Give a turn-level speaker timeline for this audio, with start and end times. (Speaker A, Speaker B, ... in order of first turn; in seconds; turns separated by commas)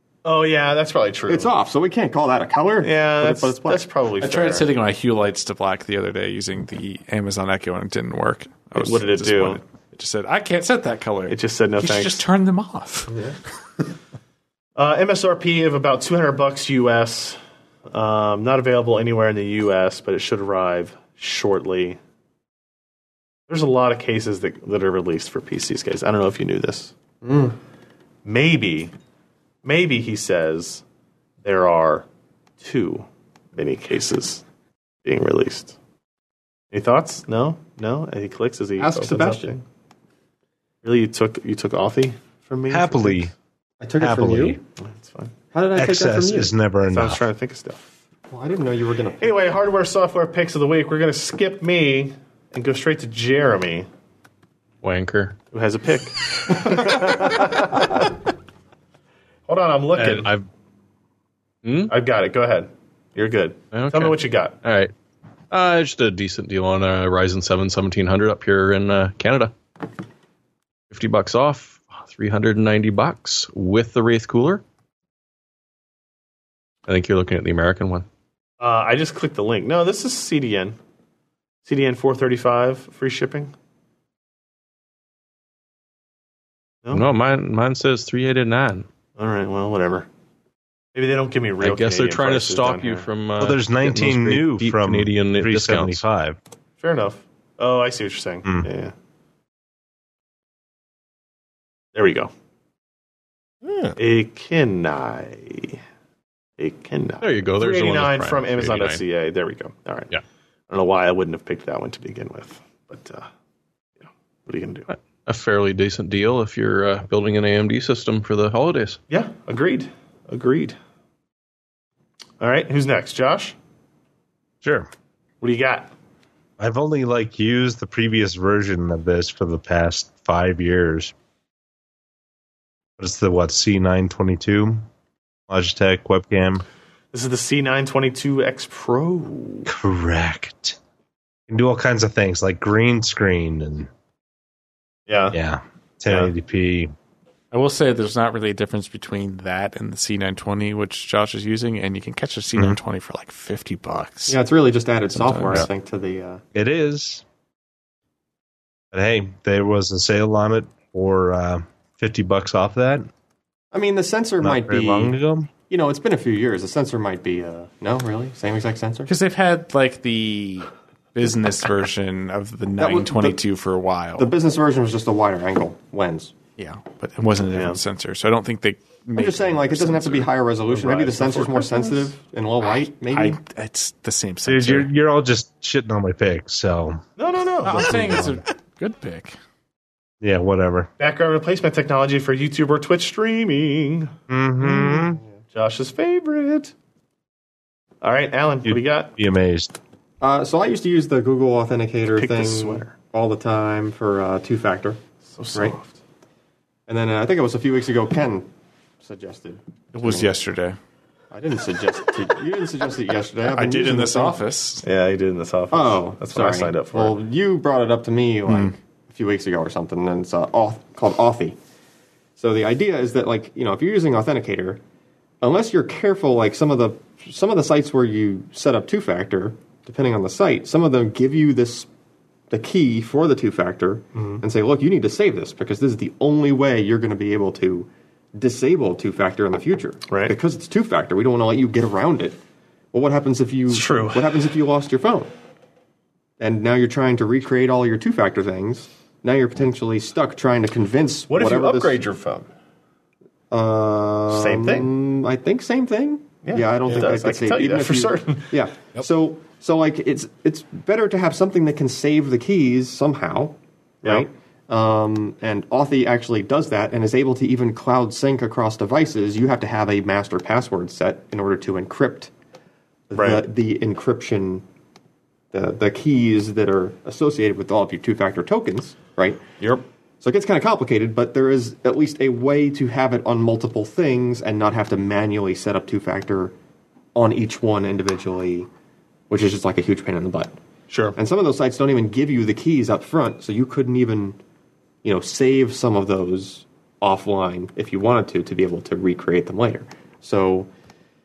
Speaker A: 0.2-1.5, Speaker B: 1.3-3.9, Speaker A: 2.8-4.7, Speaker C: 4.2-13.1, Speaker A: 8.7-9.6, Speaker A: 11.3-12.2, Speaker B: 13.1-13.3, Speaker A: 14.8-22.0, Speaker A: 23.5-26.9, Speaker B: 27.2-27.6, Speaker A: 28.2-28.9, Speaker A: 29.6-30.8, Speaker A: 31.4-32.0, Speaker A: 32.6-34.4, Speaker A: 35.0-35.8, Speaker A: 36.7-39.6, Speaker B: 38.8-39.5, Speaker A: 40.8-43.3, Speaker D: 42.7-43.3, Speaker B: 43.8-44.6, Speaker D: 44.0-44.6, Speaker A: 44.8-45.3, Speaker B: 45.5-46.5, Speaker D: 45.7-47.2, Speaker A: 46.9-47.9, Speaker B: 48.3-49.4, Speaker A: 49.2-53.9, Speaker E: 54.8-55.4, Speaker A: 55.5-58.1, Speaker A: 59.5-60.3, Speaker E: 60.0-60.5, Speaker E: 61.6-61.9, Speaker A: 61.9-64.6, Speaker E: 63.7-64.9, Speaker E: 65.5-69.5, Speaker E: 70.9-74.6, Speaker E: 76.8-78.0, Speaker A: 78.6-80.8, Speaker A: 81.6-83.5, Speaker E: 86.9-88.8, Speaker A: 89.2-90.1, Speaker A: 90.9-93.1, Speaker E: 91.6-96.0, Speaker D: 93.4-96.4, Speaker A: 96.8-98.9, Speaker A: 101.9-102.3, Speaker A: 104.0-105.8, Speaker A: 106.6-110.1, Speaker E: 107.2-109.0, Speaker A: 110.7-113.3, Speaker A: 114.5-114.9, Speaker E: 114.9-119.0, Speaker A: 119.1-120.8, Speaker A: 122.4-123.5, Speaker D: 124.6-124.9, Speaker A: 125.4-125.9, Speaker D: 126.6-131.1, Speaker D: 133.0-134.9, Speaker D: 135.5-136.6, Speaker A: 137.1-139.7, Speaker D: 139.7-140.8, Speaker D: 141.5-143.9, Speaker A: 145.1-145.3, Speaker D: 145.3-146.9, Speaker C: 147.5-154.4, Speaker B: 154.3-156.4, Speaker C: 155.1-155.7, Speaker D: 156.5-157.2, Speaker D: 158.9-163.1, Speaker B: 163.7-165.2, Speaker D: 164.4-165.5, Speaker B: 165.7-169.1, Speaker C: 169.1-174.3, Speaker B: 172.8-173.4, Speaker B: 174.2-176.3, Speaker C: 176.6-180.3, Speaker A: 177.5-177.8, Speaker B: 179.1-183.4, Speaker A: 180.7-182.1, Speaker C: 183.1-184.9, Speaker D: 184.4-187.0, Speaker A: 187.2-188.2, Speaker D: 187.6-188.4, Speaker C: 187.6-189.3, Speaker D: 190.2-190.9, Speaker A: 191.0-194.1, Speaker D: 194.3-195.2, Speaker B: 194.9-195.3, Speaker A: 195.5-196.7, Speaker A: 198.0-199.1, Speaker D: 198.6-199.8, Speaker B: 200.2-205.0, Speaker A: 202.2-202.9, Speaker A: 205.3-206.0, Speaker B: 206.9-208.5, Speaker B: 209.0-210.3, Speaker C: 209.9-210.8, Speaker B: 211.3-214.4, Speaker C: 213.5-214.8, Speaker A: 214.8-217.2, Speaker B: 215.7-221.6, Speaker B: 222.4-224.8, Speaker B: 225.4-231.9, Speaker B: 232.5-242.4, Speaker A: 234.1-234.4, Speaker A: 240.1-240.3, Speaker B: 242.9-245.3, Speaker A: 243.7-244.2, Speaker B: 246.4-252.0, Speaker A: 251.3-252.5, Speaker B: 253.5-272.3, Speaker A: 254.3-254.9, Speaker A: 256.4-258.6, Speaker B: 273.1-274.6, Speaker A: 273.1-273.4, Speaker B: 275.5-279.4, Speaker B: 280.2-286.5, Speaker B: 287.1-288.7, Speaker B: 289.3-290.5, Speaker A: 290.9-291.2, Speaker B: 291.1-294.4, Speaker B: 295.0-300.7